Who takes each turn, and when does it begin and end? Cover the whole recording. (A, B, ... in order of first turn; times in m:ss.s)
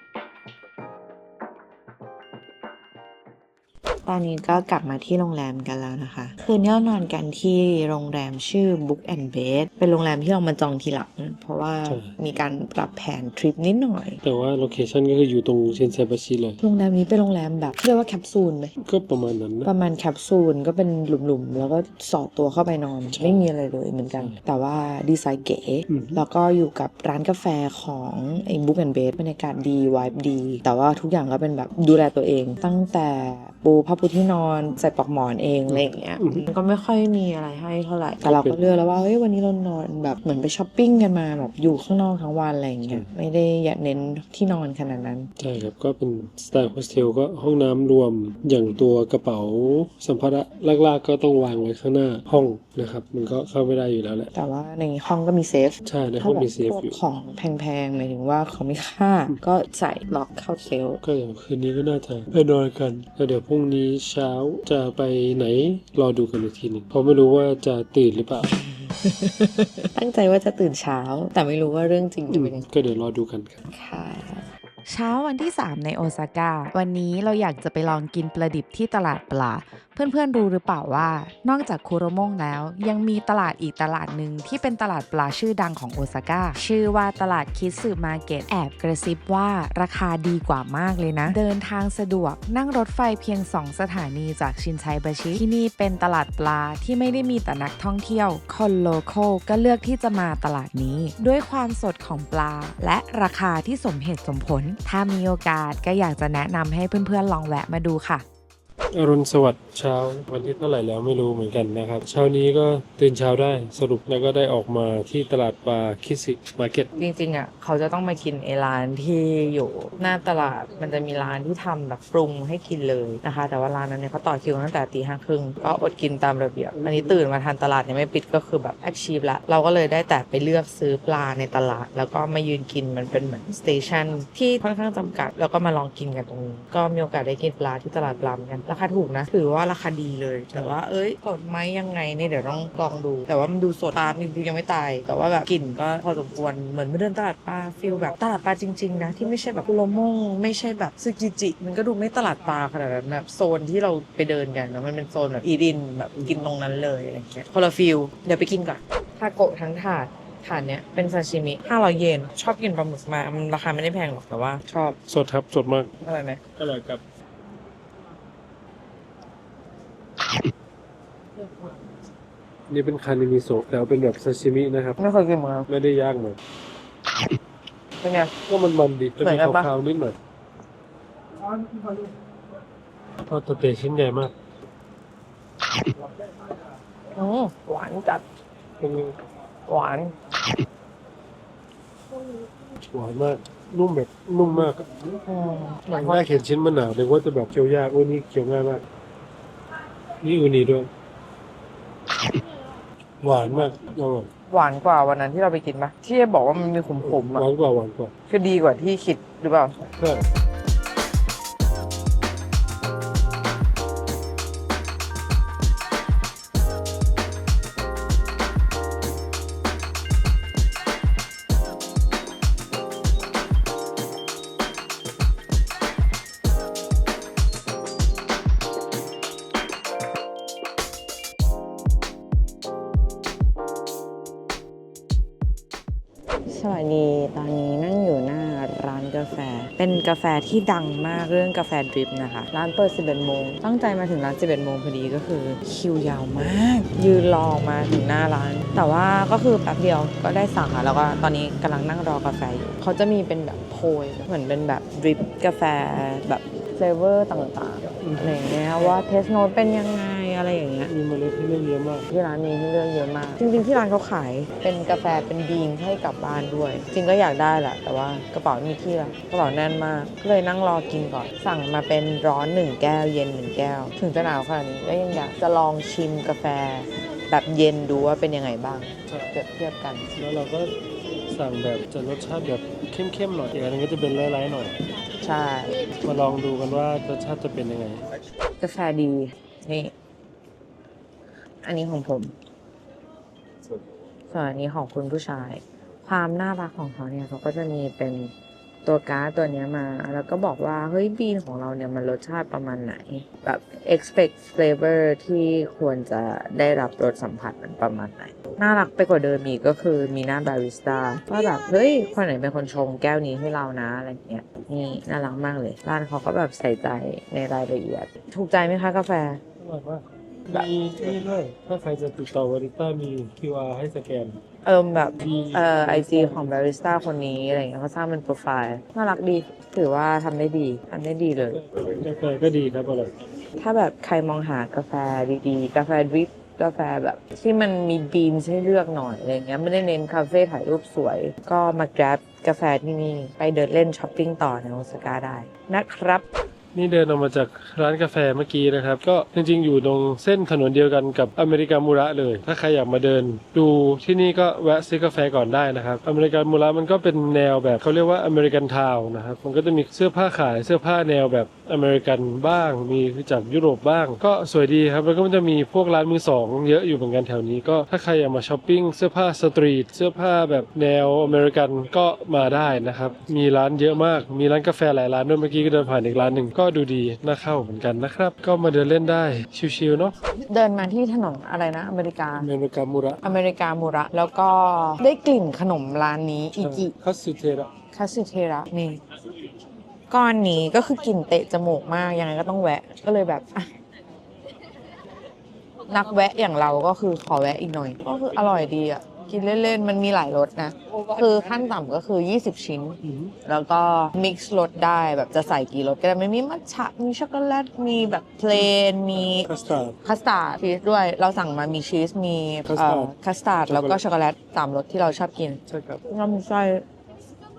0:04.1-0:14.2 A
0:11.8-0:12.1 B
0:14.2-0:16.6 B
0:16.6-0:18.7 A
0:18.8-0:19.7 B
0:19.6-0:45.3 A
0:23.1-0:23.5 B
0:25.9-0:26.2 B
0:35.7-0:36.5 B
0:38.2-0:38.6 B
0:45.4-0:54.3 B
0:54.3-1:01.0 A
0:55.8-0:57.0 B
1:01.0-1:08.5 B
1:08.4-1:12.6 A
1:12.3-1:13.6 B
1:13.7-1:14.4 A
1:14.9-1:48.2 C
1:48.9-1:56.9 B
1:57.0-2:45.0 A
2:06.8-2:07.2 B
2:45.1-2:45.9 B
2:46.0-2:46.4 A
2:46.6-2:47.0 B
2:52.7-2:55.0 B
2:55.0-2:55.7 A
2:55.7-2:56.4 B
2:58.0-2:58.3 A
2:58.5-3:00.2 B
2:59.2-2:59.7 A
3:03.3-3:04.3 B
3:07.2-3:08.2 A
3:08.8-3:09.2 B
3:09.7-3:10.1 A
3:12.9-3:15.2 B
3:15.3-3:16.4 A
3:15.9-3:18.8 B
3:20.2-3:20.9 B
3:23.2-3:24.3 B
3:24.5-3:27.5 A
3:27.0-3:28.1 B
3:28.3-3:29.8 A
3:29.9-3:30.3 B
3:56.5-4:20.9 A
4:18.0-4:19.0 B
4:20.8-4:22.1 B
4:22.1-4:40.1 A
4:40.2-4:40.7 B
4:41.3-4:44.8 B
4:45.2-4:45.7 A
4:46.0-4:48.0 B
4:48.6-4:49.9 A
4:51.6-4:52.3 A
4:54.3-4:58.3 A
4:58.8-5:19.4 A
5:19.6-5:24.4 B
5:24.6-5:31.6 A
5:25.2-5:26.5 B
5:31.4-5:33.1 B
5:33.6-5:46.2 A
5:46.7-6:20.2 B
6:20.5-6:22.5 A
6:22.4-6:23.2 B
6:23.2-6:26.9 A
6:26.6-6:27.7 B
6:27.9-6:29.0 A
6:30.1-6:33.7 A
6:35.9-6:49.5 A
6:43.0-6:43.3 B
6:49.5-6:50.0 B
6:50.0-6:56.8 A
6:52.6-6:53.1 B
6:53.7-6:54.0 B
6:55.7-6:56.0 B